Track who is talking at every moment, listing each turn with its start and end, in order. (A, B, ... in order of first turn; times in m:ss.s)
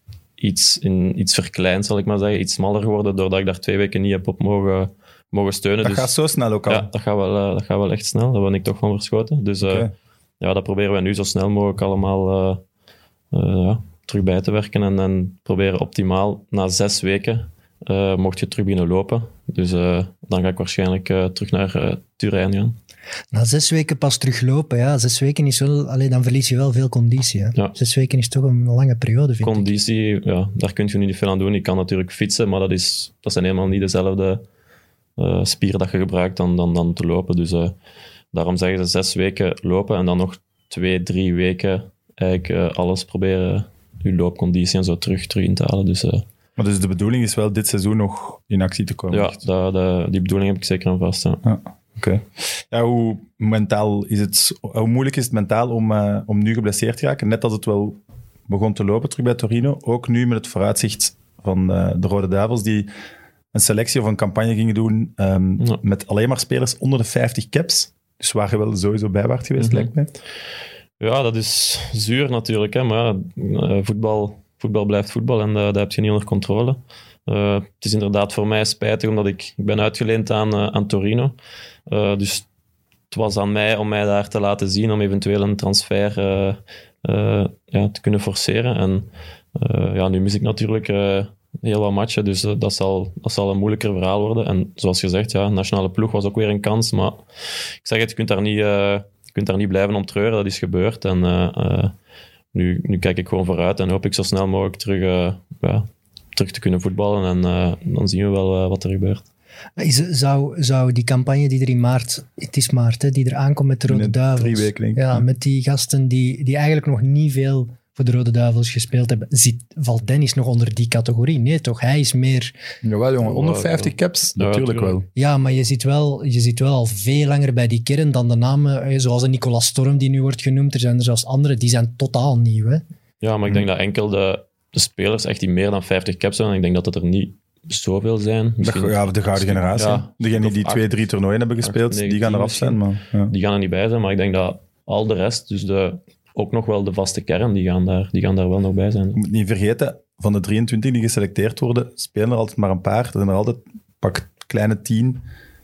0:00.4-0:06.1 A
0:05.8-0:06.9 B
0:06.7-0:09.9 A
0:09.6-0:09.9 B
0:10.4-0:12.6 A
0:13.3-0:22.8 A
0:23.3-0:29.7 C
0:29.4-0:34.4 A
0:35.2-0:37.8 A
0:38.3-0:46.2 A
0:46.6-0:49.4 B
0:49.1-0:51.4 A
0:51.4-1:02.9 B
1:03.5-1:10.1 B
1:09.6-1:09.9 A
1:11.0-1:21.4 A
1:21.9-1:22.5 A
1:23.1-1:37.2 A
1:37.8-1:41.9 A
1:42.5-1:49.2 A
1:49.8-2:02.5 C
1:53.9-1:55.2 B
2:02.8-2:05.1 B
2:03.2-2:05.0 A
2:05.1-2:12.8 C
2:13.2-2:21.0 A
2:18.6-2:23.3 B
2:21.6-2:29.2 A
2:29.2-2:35.2 B